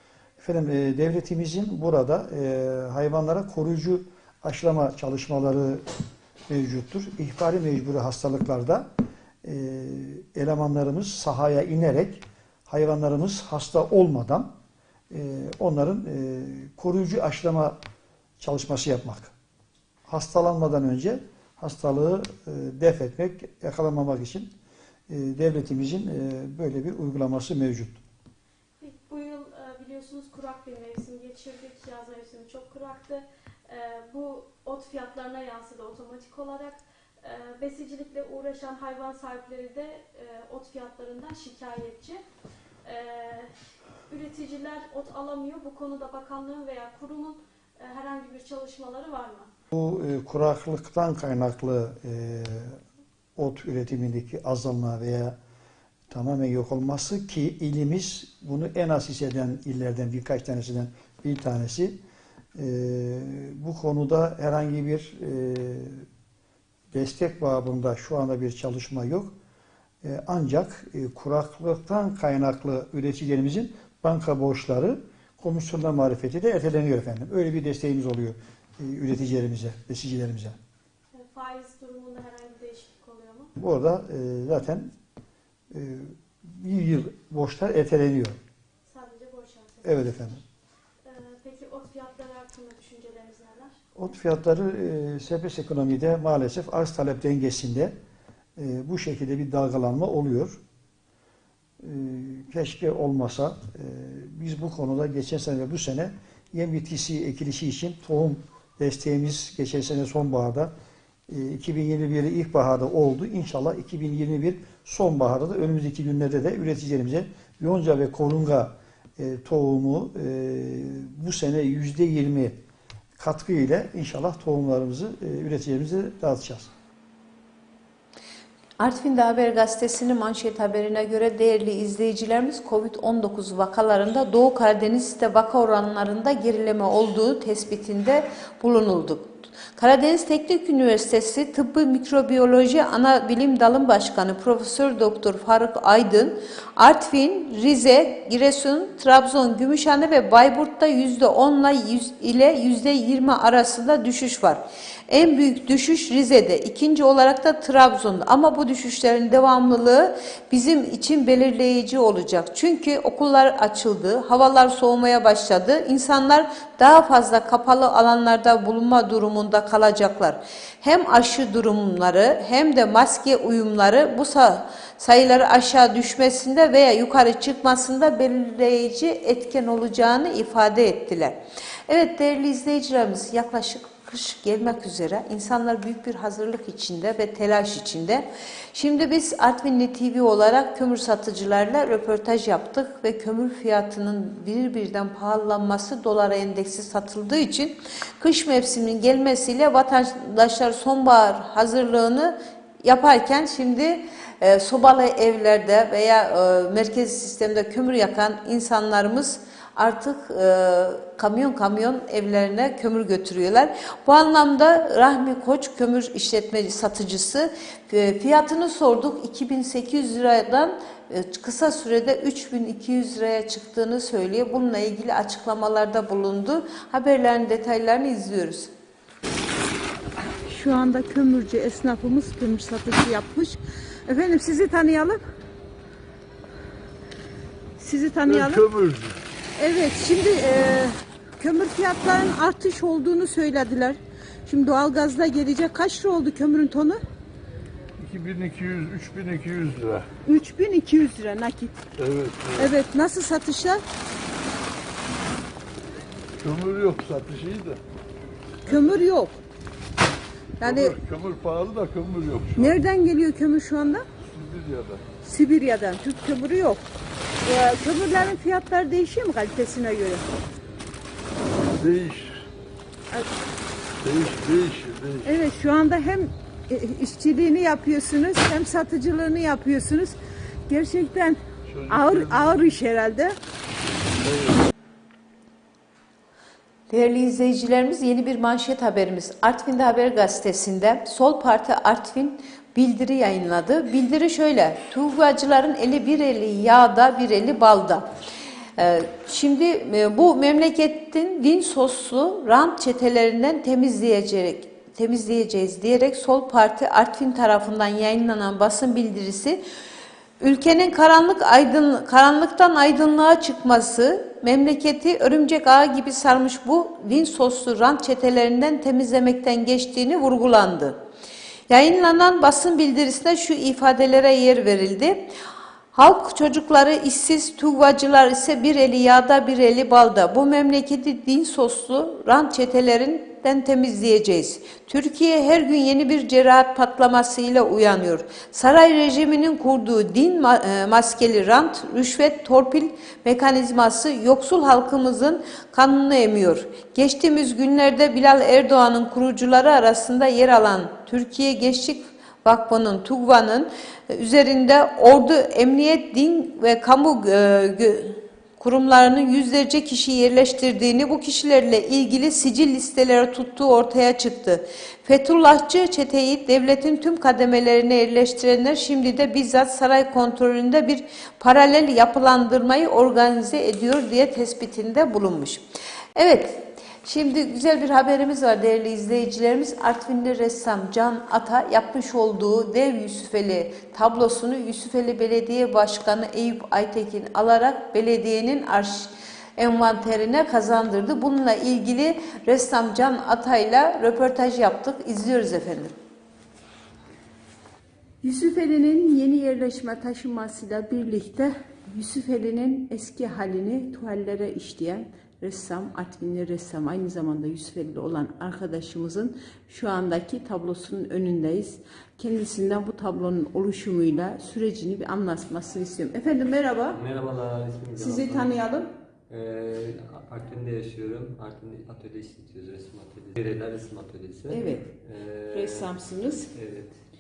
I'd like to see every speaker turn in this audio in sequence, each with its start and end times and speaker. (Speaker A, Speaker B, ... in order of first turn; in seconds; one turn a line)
Speaker A: 0.4-5.8
Speaker A: 6.5-8.9
Speaker A: 9.4-14.5
Speaker A: 15.1-17.8
Speaker A: 18.4-19.3
Speaker A: 20.1-24.5
Speaker A: 25.1-28.0
Speaker B: 28.8-42.2
Speaker B: 42.8-43.5
Speaker B: 44.1-49.5
Speaker A: 49.7-52.8
Speaker A: 53.4-55.4
Speaker A: 56.1-62.0
Speaker A: 62.6-66.1
Speaker A: 66.9-69.3
Speaker A: 70.0-80.6
Speaker B: 81.1-83.5
Speaker A: 83.6-84.9
Speaker A: 85.7-88.4
Speaker B: 88.9-90.4
Speaker A: 89.8-90.4
Speaker B: 91.0-93.8
Speaker A: 94.0-97.9
Speaker A: 98.6-100.6
Speaker A: 101.8-110.7
Speaker A: 111.3-122.6
Speaker A: 123.2-126.7
Speaker C: 128.8-228.7
Speaker D: 230.5-235.2
Speaker D: 237.8-238.6
Speaker E: 238.3-239.2
Speaker D: 239.6-247.0
Speaker E: 248.0-250.1
Speaker D: 250.3-251.8
Speaker E: 252.0-252.7
Speaker D: 252.6-253.8
Speaker E: 256.4-257.8
Speaker D: 258.7-259.4
Speaker E: 258.7-259.0
Speaker D: 260.6-261.0
Speaker E: 260.6-262.8
Speaker D: 262.6-264.1
Speaker E: 264.2-265.0
Speaker D: 265.2-266.8
Speaker D: 267.4-270.3
Speaker E: 271.7-272.4
Speaker E: 274.0-275.3
Speaker D: 275.3-280.2
Speaker D: 280.7-283.4
Speaker E: 281.7-282.6
Speaker E: 284.2-284.6
Speaker C: 286.9-298.1
Speaker C: 298.8-309.6
Speaker C: 310.4-321.0
Speaker C: 321.7-325.3
Speaker C: 325.9-375.6
Speaker C: 376.2-395.9
Speaker D: 398.2-417.0
Speaker F: 416.9-418.6
Speaker D: 418.0-418.9
Speaker F: 419.3-426.0
Speaker D: 424.5-424.9
Speaker D: 425.5-426.5
Speaker F: 426.5-427.0